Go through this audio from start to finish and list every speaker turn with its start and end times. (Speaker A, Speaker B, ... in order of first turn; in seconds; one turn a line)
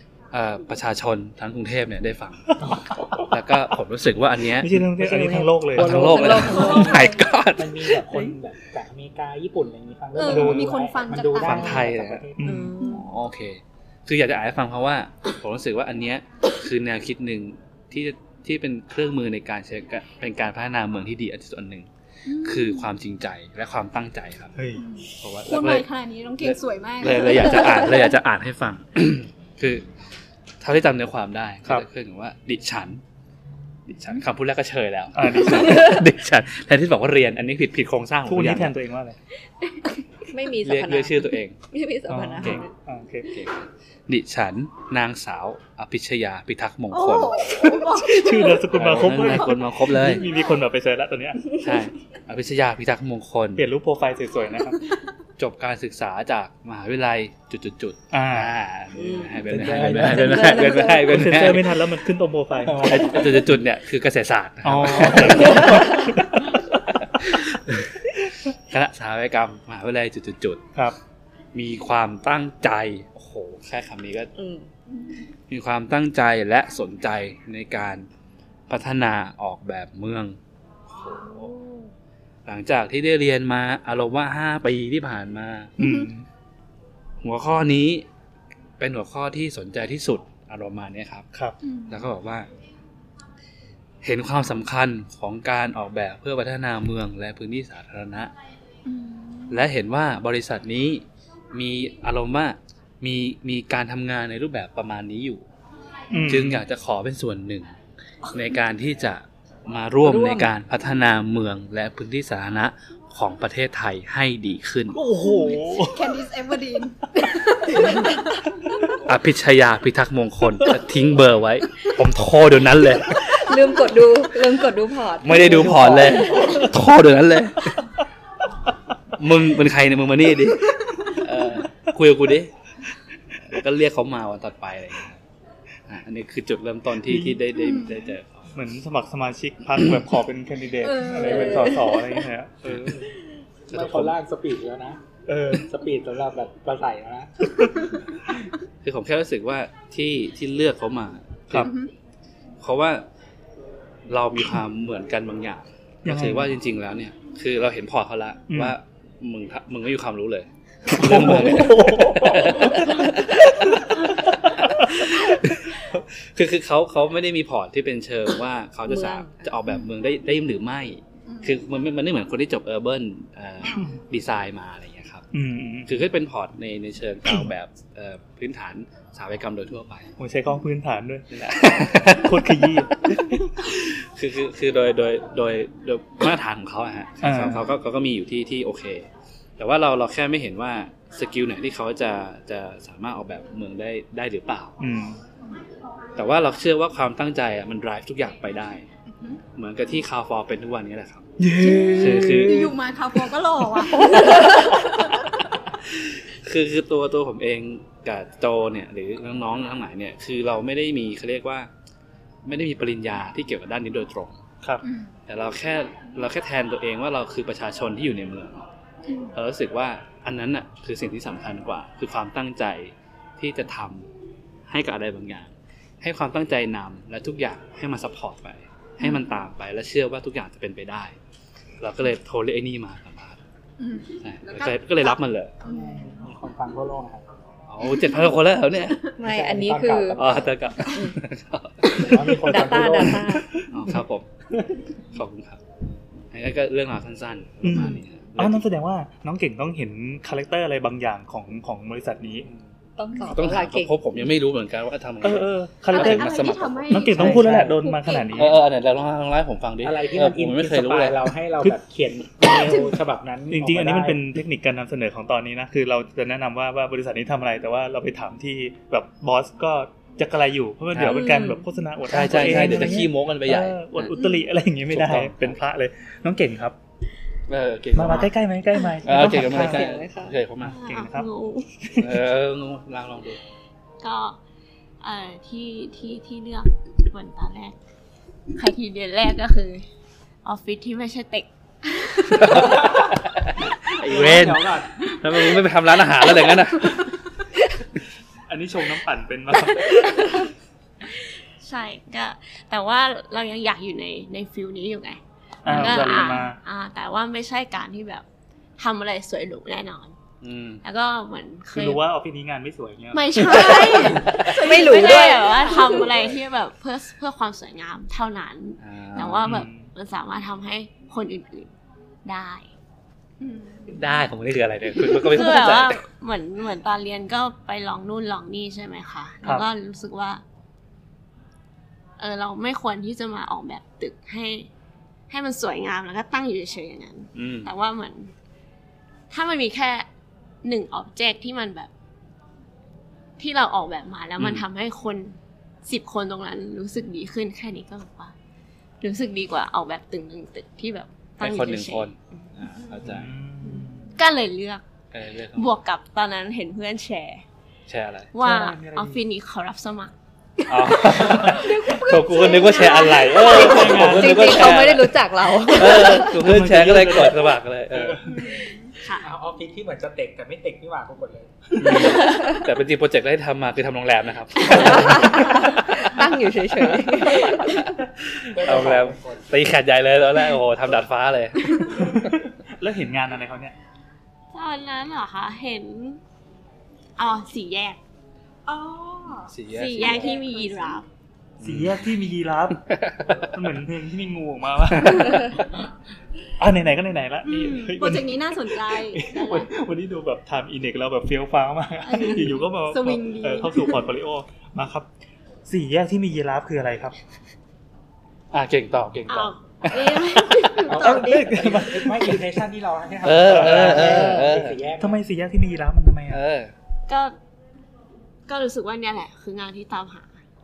Speaker A: 0.3-2.6
Speaker A: 3.2-4.8
Speaker B: 4.6-6.8
Speaker C: 5.0-7.0
Speaker A: 5.8-8.0
Speaker D: 5.8-7.2
Speaker E: 6.5-7.2
Speaker C: 7.5-12.7
Speaker E: 10.2-11.8
Speaker B: 10.3-10.7
Speaker A: 11.4-12.3
Speaker B: 11.4-11.8
Speaker B: 12.4-12.8
Speaker D: 12.4-13.1
Speaker E: 12.8-13.1
Speaker A: 12.8-21.9
Speaker E: 22.3-22.9
Speaker A: 22.4-24.6
Speaker B: 24.6-24.9
Speaker E: 24.8-28.1
Speaker A: 25.2-25.9
Speaker A: 26.4-29.9
Speaker A: 30.6-33.0
Speaker A: 33.9-38.7
Speaker B: 35.1-35.9
Speaker B: 38.3-39.2
Speaker D: 40.3-42.7
Speaker A: 40.6-41.6
Speaker B: 42.1-43.3
Speaker A: 42.4-42.6
Speaker A: 43.3-50.2
Speaker E: 46.9-48.7
Speaker B: 47.6-51.6
Speaker A: 51.5-53.7
Speaker B: 53.6-54.8
Speaker A: 55.4-61.8
Speaker B: 58.1-58.5
Speaker D: 58.9-61.2
Speaker C: 59.5-60.7
Speaker B: 61.0-63.2
Speaker C: 62.6-63.4
Speaker A: 62.8-66.1
Speaker B: 64.6-66.6
Speaker D: 65.6-66.0
Speaker A: 67.0-70.7
Speaker A: 71.5-74.3
Speaker D: 74.4-74.7
Speaker A: 75.5-78.1
Speaker A: 78.7-80.4
Speaker A: 80.9-81.5
Speaker E: 81.4-81.9
Speaker A: 82.5-85.7
Speaker B: 85.8-86.3
Speaker E: 85.8-86.1
Speaker A: 87.2-88.1
Speaker A: 88.8-91.3
Speaker E: 91.6-92.0
Speaker A: 91.9-92.5
Speaker A: 94.0-98.3
Speaker E: 98.9-99.7
Speaker A: 99.5-105.4
Speaker B: 106.1-106.6
Speaker A: 106.3-107.8
Speaker A: 108.3-115.0
Speaker D: 110.0-110.5
Speaker B: 114.9-116.1
Speaker E: 115.2-118.4
Speaker A: 119.0-123.5
Speaker D: 123.2-126.7
Speaker A: 125.2-127.8
Speaker A: 129.2-132.5
Speaker A: 133.4-135.2
Speaker A: 135.9-138.5
Speaker B: 137.1-137.4
Speaker E: 137.6-138.1
Speaker B: 138.6-143.1
Speaker E: 140.8-142.0
Speaker A: 142.7-143.0
Speaker A: 143.7-144.2
Speaker C: 143.7-145.0
Speaker B: 145.3-145.7
Speaker C: 145.5-147.6
Speaker A: 148.8-151.7
Speaker E: 151.6-151.9
Speaker A: 152.6-153.0
Speaker A: 154.1-175.3
Speaker B: 156.1-156.6
Speaker B: 158.5-158.8
Speaker B: 160.9-165.1
Speaker D: 168.9-169.5
Speaker E: 171.3-171.6
Speaker B: 175.3-176.0
Speaker A: 175.9-180.1
Speaker B: 180.2-183.6
Speaker A: 181.3-189.1
Speaker B: 187.2-187.7
Speaker A: 189.6-194.8
Speaker B: 194.8-195.2
Speaker A: 196.2-198.9
Speaker E: 199.1-199.4
Speaker A: 199.6-201.4
Speaker B: 201.4-202.7
Speaker E: 201.6-205.2
Speaker A: 201.9-202.7
Speaker A: 204.0-205.0
Speaker A: 206.0-211.7
Speaker A: 212.4-214.4
Speaker E: 214.8-215.1
Speaker A: 215.3-218.7
Speaker E: 219.1-219.3
Speaker A: 219.3-224.1
Speaker A: 224.7-231.2
Speaker A: 231.8-233.4
Speaker E: 233.8-236.2
Speaker A: 234.2-235.6
Speaker C: 235.7-237.2
Speaker A: 237.7-239.1
Speaker E: 237.9-238.2
Speaker D: 239.2-240.3
Speaker C: 239.2-240.4
Speaker A: 240.1-242.4
Speaker D: 240.8-241.2
Speaker C: 241.9-243.5
Speaker D: 242.3-243.5
Speaker A: 243.7-244.3
Speaker A: 245.1-245.6
Speaker A: 246.3-248.6
Speaker B: 247.6-252.5
Speaker D: 253.0-253.9
Speaker A: 253.3-257.4
Speaker B: 255.2-258.6
Speaker E: 255.9-258.5
Speaker C: 257.2-257.8
Speaker A: 258.3-261.2
Speaker C: 259.8-264.2
Speaker E: 262.6-263.0
Speaker B: 263.5-276.8
Speaker A: 270.9-271.2
Speaker D: 271.1-271.6
Speaker A: 272.1-274.2
Speaker E: 274.1-274.5
Speaker A: 274.9-275.6
Speaker A: 277.5-278.3
Speaker B: 277.9-279.9
Speaker A: 279.0-280.8
Speaker D: 279.1-280.4
Speaker B: 280.6-281.3
Speaker F: 280.6-281.7
Speaker B: 281.9-282.2
Speaker A: 282.0-283.4
Speaker F: 284.0-284.4
Speaker F: 285.0-287.8
Speaker F: 288.5-289.9
Speaker F: 290.4-292.6
Speaker A: 292.4-297.2
Speaker C: 293.9-294.9
Speaker B: 298.5-300.5
Speaker F: 300.1-300.4
Speaker F: 301.1-308.2
Speaker B: 305.6-306.6
Speaker F: 308.8-310.2
Speaker A: 310.4-310.8
Speaker F: 310.8-312.0
Speaker B: 311.7-313.7
Speaker F: 313.1-321.7
Speaker E: 313.4-316.2
Speaker A: 314.1-314.6
Speaker D: 314.6-315.7
Speaker A: 318.8-319.4
Speaker B: 319.4-319.9
Speaker F: 322.2-322.7
Speaker E: 323.4-324.1
Speaker A: 323.9-326.0
Speaker F: 325.0-330.4
Speaker F: 332.2-334.7
Speaker F: 335.3-338.3
Speaker A: 337.3-337.7
Speaker F: 339.3-340.1
Speaker F: 340.6-341.9
Speaker F: 343.4-348.3
Speaker A: 344.4-344.6
Speaker F: 349.0-352.6
Speaker A: 351.4-353.3
Speaker B: 353.1-354.1
Speaker F: 353.7-354.8
Speaker A: 355.1-355.7
Speaker F: 355.6-357.4
Speaker A: 357.9-358.3
Speaker F: 358.3-360.1
Speaker B: 358.4-359.2
Speaker E: 360.6-363.8
Speaker A: 360.7-368.2
Speaker B: 363.5-364.6
Speaker D: 363.5-366.4
Speaker B: 366.3-368.4
Speaker E: 368.2-368.9
Speaker C: 369.2-372.2
Speaker A: 371.8-376.2
Speaker D: 372.2-372.6
Speaker D: 374.7-377.9
Speaker A: 376.8-382.2
Speaker C: 378.5-379.5
Speaker B: 381.9-383.8
Speaker F: 384.5-386.2
Speaker F: 387.2-388.0
Speaker E: 388.7-391.0
Speaker A: 389.5-390.3
Speaker F: 389.7-391.1
Speaker A: 391.6-392.1
Speaker B: 391.6-395.7
Speaker A: 392.9-393.5
Speaker B: 396.6-405.1
Speaker E: 397.4-399.3
Speaker F: 399.3-399.7
Speaker E: 402.0-404.1
Speaker B: 405.7-407.2
Speaker A: 408.5-410.4
Speaker F: 409.3-411.5
Speaker C: 410.9-415.2
Speaker B: 410.9-412.5
Speaker A: 413.2-414.8
Speaker B: 413.5-414.4
Speaker B: 415.0-416.4
Speaker A: 416.3-416.7
Speaker F: 417.1-417.4
Speaker F: 418.5-420.4